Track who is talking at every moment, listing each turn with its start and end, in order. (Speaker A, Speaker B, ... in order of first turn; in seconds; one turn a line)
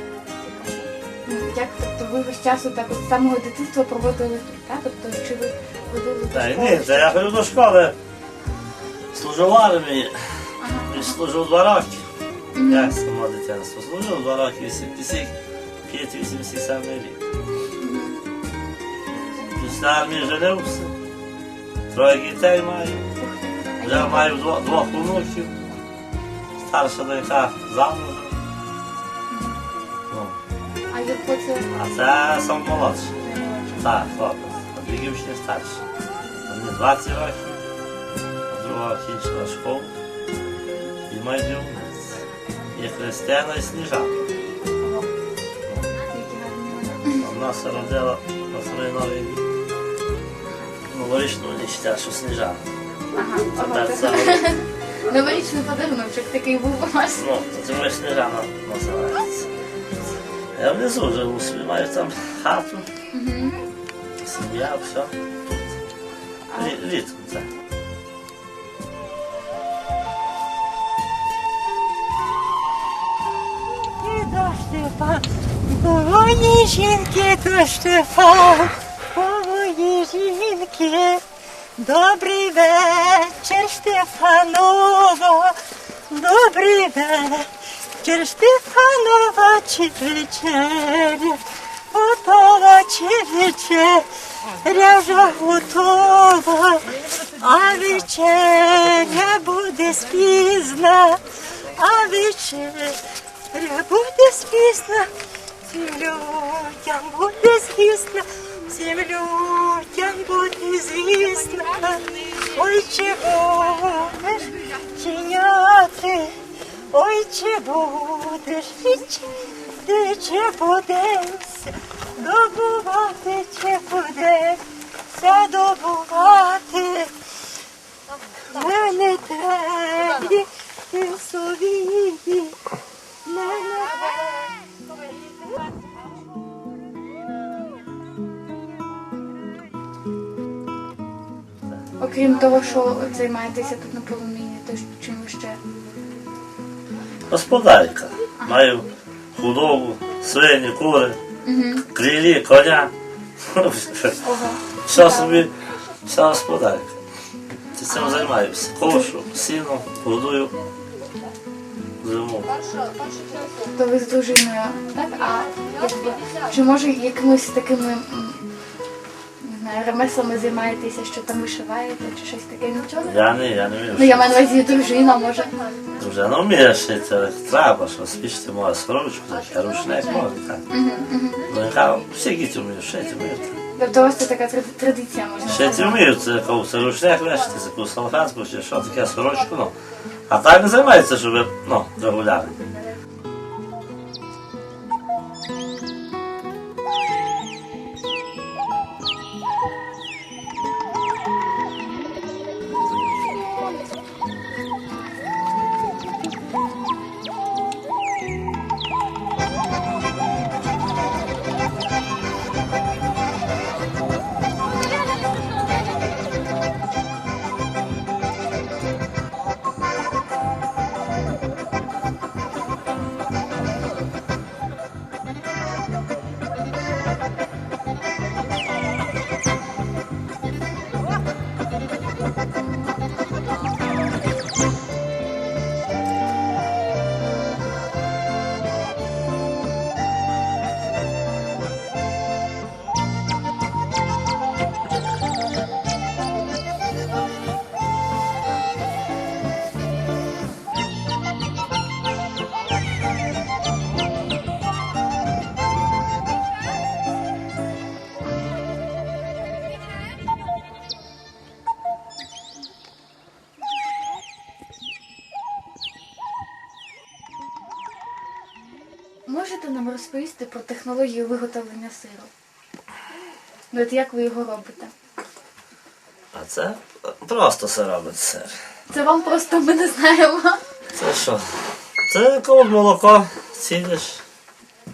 Speaker A: 0.3-7.3
Speaker B: 6.3-8.0
Speaker B: 9.1-12.1
Speaker A: 10.6-11.2
Speaker A: 12.6-12.9
Speaker B: 12.7-15.3
Speaker B: 15.9-17.2
Speaker A: 17.8-18.2
Speaker A: 19.1-19.8
Speaker B: 19.6-20.9
Speaker B: 21.9-23.1
Speaker A: 23.2-24.3
Speaker B: 23.8-25.5
Speaker B: 26.6-28.4
Speaker A: 29.3-29.6
Speaker B: 30.1-30.4
Speaker A: 30.9-31.7
Speaker B: 31.7-33.1
Speaker A: 33.2-33.9
Speaker B: 33.8-35.8
Speaker B: 36.5-37.6
Speaker B: 38.5-39.9
Speaker B: 41.1-42.2
Speaker B: 42.7-44.2
Speaker A: 44.8-45.1
Speaker A: 46.1-47.3
Speaker B: 47.2-49.4
Speaker B: 50.9-52.6
Speaker A: 53.1-57.2
Speaker B: 53.5-54.5
Speaker B: 57.2-59.5
Speaker B: 60.6-62.9
Speaker A: 63.1-63.6
Speaker B: 64.2-65.8
Speaker A: 66.5-66.8
Speaker B: 66.5-67.5
Speaker C: 73.6-81.2
Speaker C: 81.8-94.1
Speaker C: 94.6-105.1
Speaker C: 105.7-116.4
Speaker C: 116.9-127.1
Speaker C: 128.4-132.6
Speaker C: 133.3-134.5
Speaker A: 142.0-145.6
Speaker B: 147.3-151.2
Speaker A: 148.4-148.7
Speaker A: 151.4-151.9
Speaker B: 151.9-154.2
Speaker A: 154.2-155.4
Speaker B: 154.9-155.5
Speaker B: 156.1-157.0
Speaker B: 157.8-160.5
Speaker A: 157.9-159.1
Speaker B: 162.0-162.5
Speaker C: 163.0-163.3
Speaker A: 163.6-168.4
Speaker A: 169.4-173.3
Speaker B: 173.0-174.5
Speaker A: 173.9-175.5
Speaker B: 176.0-180.7
Speaker A: 180.7-181.5
Speaker B: 181.5-183.6
Speaker A: 183.8-186.1
Speaker B: 185.5-189.8
Speaker B: 190.3-192.6
Speaker A: 269.3-272.3
Speaker A: 273.7-274.9
Speaker B: 276.3-278.6
Speaker A: 278.9-280.6
Speaker B: 281.0-284.2